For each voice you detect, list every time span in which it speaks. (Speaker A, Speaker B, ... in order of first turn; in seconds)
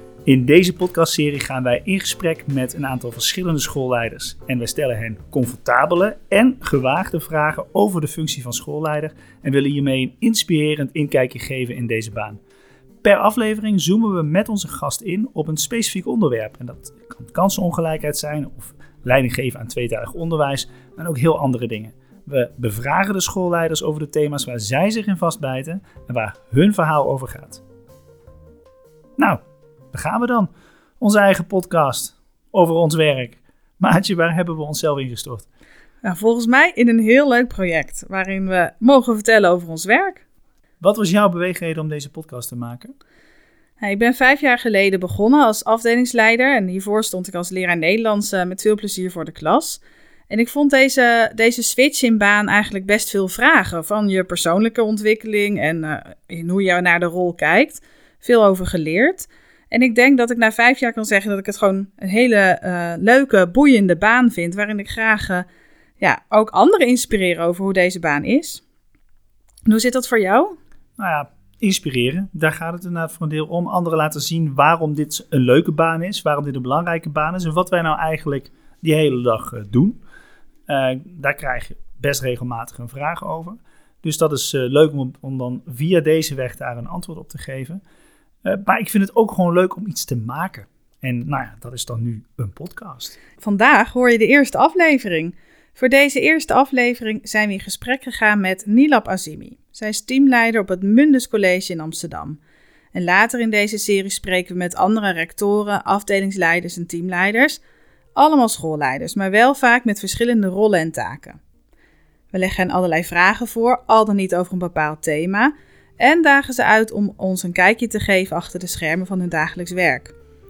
Speaker A: 0.2-12.4, 13.0-27.6, 29.2-35.5, 40.8-42.9, 71.0-80.0, 80.7-87.8, 88.4-93.2
Speaker B: 36.0-40.2, 43.8-65.5, 66.0-68.6, 69.6-70.6, 93.4-102.4, 102.9-107.6, 108.1-111.4, 112.3-120.1